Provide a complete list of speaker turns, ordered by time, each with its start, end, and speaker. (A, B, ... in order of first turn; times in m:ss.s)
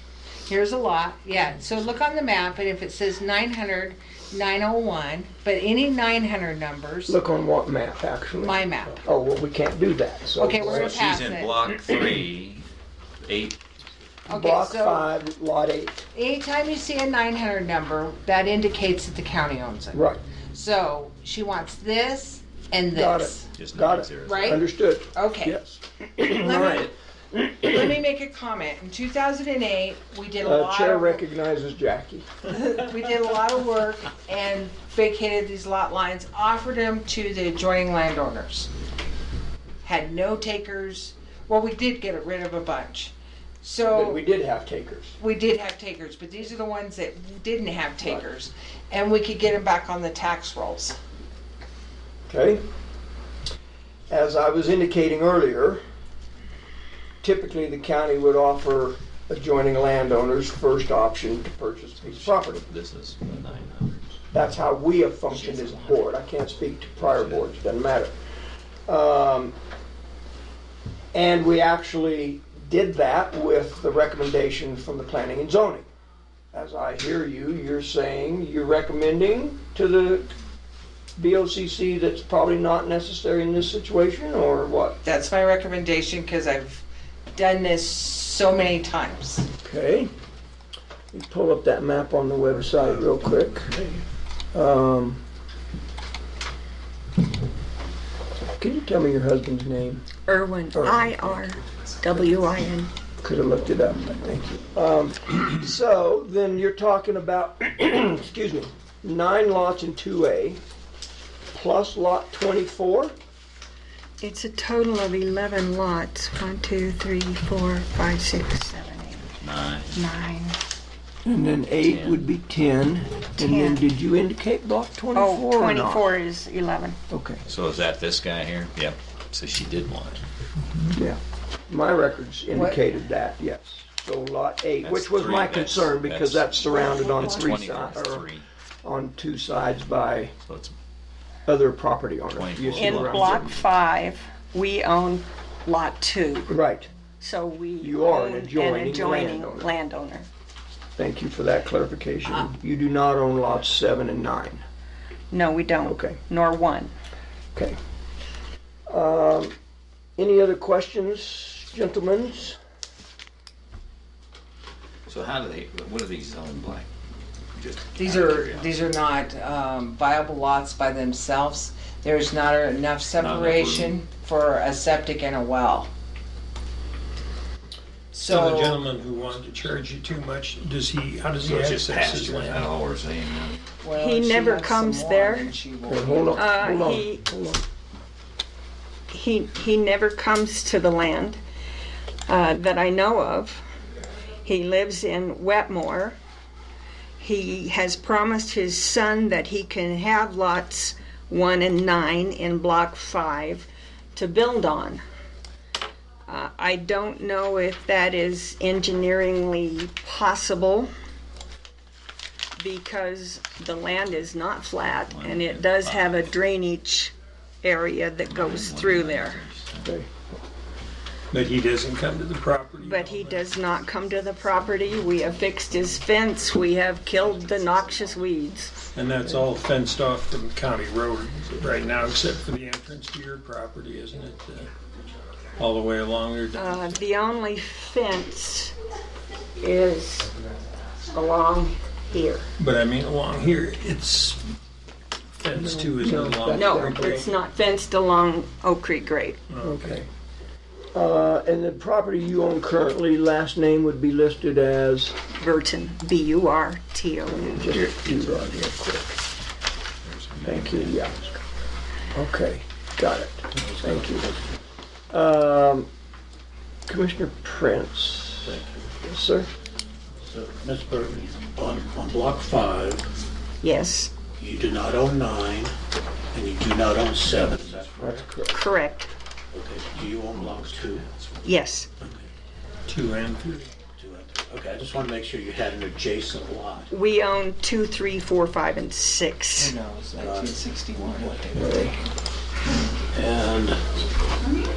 0:00.5-0:07.2 A
0:01.4-0:01.8 B
0:07.1-0:11.0 C
0:08.3-0:09.0 A
0:10.4-0:11.6 A
0:10.6-0:12.6 B
0:13.2-0:13.6 B
0:14.3-0:15.1 A
0:14.3-0:16.0 C
0:16.1-0:23.5 A
0:19.9-0:20.2 C
0:22.9-0:27.8 C
0:23.5-0:24.6 B
0:24.2-0:24.6 A
0:25.1-0:25.6 A
0:26.4-0:26.9 A
0:26.5-0:26.9 B
0:27.6-0:31.2 A
0:30.4-0:32.3 C
0:32.5-0:38.7 A
0:39.8-0:44.2 A
0:43.9-0:45.1 C
0:45.2-0:51.0 A
0:48.0-0:48.3 C
0:52.3-0:52.6 C
0:54.1-0:55.8 C
0:57.2-1:02.7 C
1:02.0-1:04.1 B
1:04.3-1:08.1 C
1:07.0-1:07.5 B
1:08.9-1:09.5 C
1:11.1-1:15.8 C
1:16.5-1:20.3 C
1:21.2-1:25.0 C
1:25.0-1:26.8 A
1:27.3-1:29.5 A
1:29.6-1:30.1 C
1:31.1-1:33.7 C
1:32.7-1:34.0 D
1:34.5-1:35.2 C
1:38.6-1:40.0 C
1:40.3-1:42.9 E
1:40.7-1:41.3 C
1:43.2-1:50.6 C
1:51.5-1:53.1 C
1:54.2-1:59.3 E
1:59.4-1:59.9 B
1:59.9-2:00.6 E
2:01.2-2:06.1 C
2:01.8-2:02.2 B
2:03.4-2:03.8 E
2:05.1-2:07.0 E
2:07.1-2:07.4 C
2:07.5-2:10.2 B
2:10.9-2:18.3 C
2:12.5-2:12.8 A
2:14.8-2:18.4 B
2:18.8-2:20.3 C
2:20.4-2:20.7 B
2:21.5-2:23.6 C
2:22.3-2:23.4 B
2:22.8-2:26.5 E
2:26.5-2:26.9 C
2:27.2-2:30.3 E
2:27.8-2:29.7 C
2:31.0-2:34.6 C
2:35.3-2:36.9 E
2:35.8-2:36.2 C
2:38.9-2:39.5 C
2:40.2-2:42.6 C
2:45.1-2:46.9 B
2:47.6-2:48.8 B
2:48.0-2:55.9 A
2:53.2-2:54.0 B
2:58.1-2:58.8 A
2:58.2-3:02.7 F
3:01.4-3:03.6 B
3:03.8-3:06.5 A
3:03.9-3:05.5 E
3:05.9-3:07.6 C
3:06.3-3:07.2 E
3:09.1-3:11.4 E
3:12.3-3:13.6 E
3:14.4-3:16.2 E
3:17.2-3:25.0 E
3:26.3-3:30.9 E
3:32.6-3:39.4 E
3:35.1-3:36.3 B
3:38.2-3:39.9 B
3:39.8-3:40.2 C
3:41.3-3:43.4 F
3:42.8-3:48.8 E
3:48.9-3:54.7 F
3:55.6-3:57.0 F
3:56.5-3:58.7 E
3:59.6-4:00.3 E
4:01.1-4:02.5 E
4:02.6-4:04.4 F
4:05.4-4:07.3 F
4:05.5-4:07.2 C
4:06.5-4:09.4 E
4:09.5-4:10.0 F
4:09.6-4:10.1 C
4:10.9-4:15.1 C
4:15.4-4:17.6 E
4:17.3-4:19.2 C
4:17.7-4:18.6 B
4:20.0-4:21.0 B
4:20.4-4:21.3 C
4:22.1-4:24.3 C
4:23.6-4:24.3 D
4:25.1-4:25.9 C
4:26.9-4:29.5 C
4:28.4-4:28.9 D
4:30.2-4:33.1 D
4:33.6-4:34.1 E
4:34.4-4:35.7 D
4:36.3-4:38.2 D
4:37.4-4:37.7 B
4:38.0-4:38.5 C
4:38.5-4:39.1 E
4:39.5-4:41.1 D
4:40.3-4:41.4 B
4:41.4-4:41.9 E
4:42.0-4:42.3 D
4:42.9-4:43.7 F
4:43.9-4:46.9 D
4:46.9-4:49.7 E
4:49.6-4:52.0 A
4:50.2-4:50.6 D
4:51.6-4:51.9 C
4:53.1-4:53.8 D